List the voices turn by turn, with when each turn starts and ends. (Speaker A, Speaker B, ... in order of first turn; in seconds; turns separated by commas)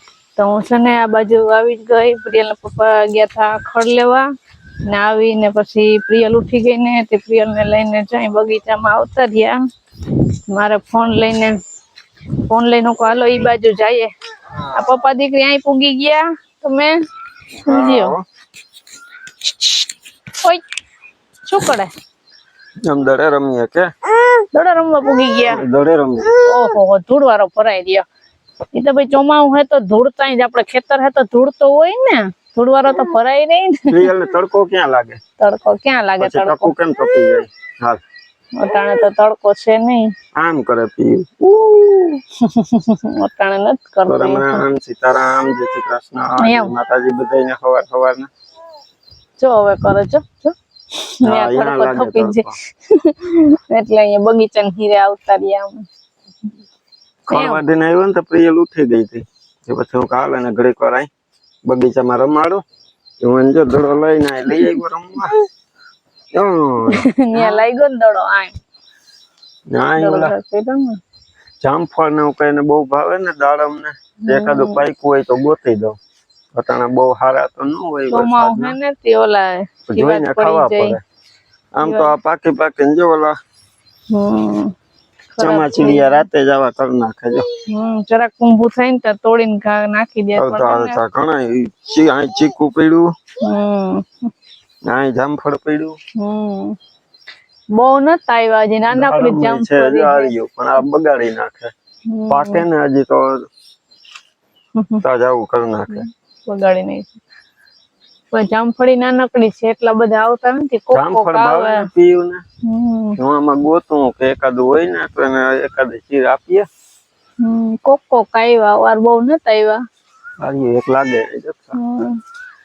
Speaker A: 0.4-4.2, Speaker A: 4.9-9.6, Speaker A: 10.5-11.6, Speaker A: 12.5-14.1, Speaker A: 14.7-16.9, Speaker A: 17.6-18.1, Speaker B: 17.6-18.2, Speaker A: 21.4-21.9, Speaker B: 22.8-23.9, Speaker A: 24.5-25.6, Speaker B: 25.4-26.4, Speaker A: 26.4-28.0, Speaker A: 28.7-34.0, Speaker B: 33.9-35.2, Speaker A: 35.4-36.7, Speaker B: 36.2-38.0, Speaker A: 38.6-40.1, Speaker B: 40.4-42.2, Speaker A: 42.4-44.6, Speaker B: 44.1-48.3, Speaker A: 46.4-46.7, Speaker A: 49.4-55.9, Speaker B: 51.2-52.5, Speaker B: 57.3-61.1, Speaker A: 57.3-57.6, Speaker B: 61.6-62.6, Speaker B: 63.2-65.3, Speaker B: 66.3-67.7, Speaker A: 66.9-68.5, Speaker B: 69.7-70.3, Speaker A: 70.0-71.0, Speaker B: 71.6-76.0, Speaker A: 74.2-74.8, Speaker B: 76.5-78.8, Speaker A: 78.1-81.0, Speaker B: 79.9-81.0, Speaker B: 81.7-83.3, Speaker A: 81.8-82.1, Speaker A: 84.1-84.7, Speaker A: 85.4-86.2, Speaker B: 85.4-87.5, Speaker A: 87.7-91.0, Speaker B: 90.3-93.1, Speaker A: 93.4-94.3, Speaker B: 94.8-96.0, Speaker A: 96.2-96.8, Speaker A: 97.7-100.3, Speaker B: 98.9-101.7, Speaker A: 102.1-102.6, Speaker B: 102.3-103.5, Speaker A: 104.7-105.0, Speaker B: 105.0-106.0, Speaker A: 105.9-107.2, Speaker A: 108.3-111.9, Speaker B: 110.9-112.4, Speaker A: 112.6-113.2, Speaker B: 113.2-116.7, Speaker A: 117.4-119.8, Speaker B: 120.4-121.8, Speaker A: 121.7-122.2